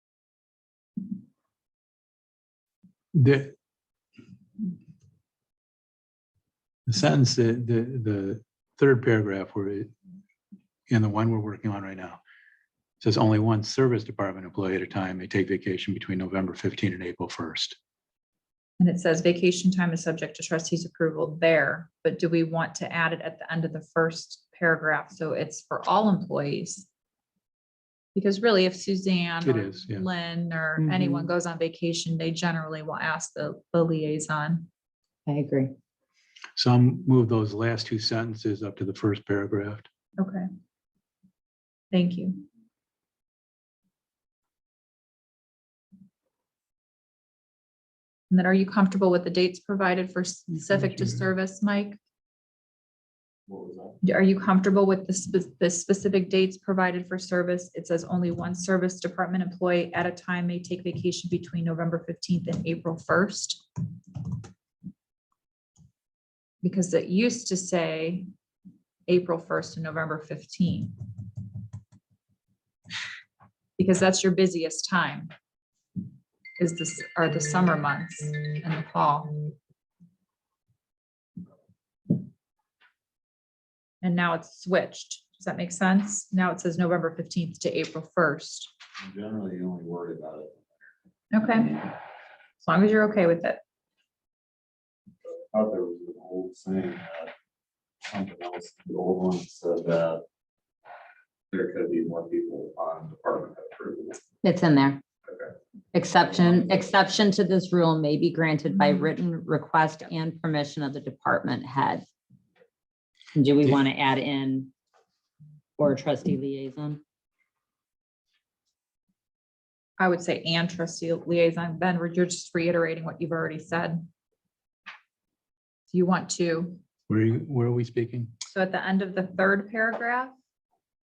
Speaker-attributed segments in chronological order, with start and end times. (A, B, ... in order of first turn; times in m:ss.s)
0:03.1-0:03.5 A
0:06.9-0:09.9 A
0:10.9-0:12.2 A
0:13.0-0:17.8 A
0:18.8-0:26.9 B
0:28.2-0:34.7 B
0:29.4-0:30.1 A
0:30.8-0:31.3 C
0:35.3-0:35.7 C
0:36.6-0:39.9 A
0:40.2-0:40.5 B
0:41.9-0:42.4 B
0:48.3-0:52.0 B
0:50.7-0:51.0 A
0:53.5-0:54.0 D
0:54.0-1:03.6 B
1:06.6-1:08.3 B
1:09.1-1:10.9 B
1:13.8-1:15.3 B
1:16.6-1:19.4 B
1:24.0-1:28.7 B
1:29.0-1:30.9 D
1:31.3-1:31.9 B
1:32.6-1:33.6 B
1:35.2-1:37.3 D
1:38.1-1:40.2 D
1:41.5-1:44.2 D
1:44.4-1:45.0 C
1:45.3-1:45.5 D
1:45.9-1:52.0 C
1:46.1-1:47.0 D
1:48.8-1:49.1 B
1:53.4-1:54.7 C
1:55.8-1:57.0 C
2:00.0-2:04.0 B
2:05.9-2:06.8 B
2:07.1-2:08.3 A
2:08.5-2:10.4 B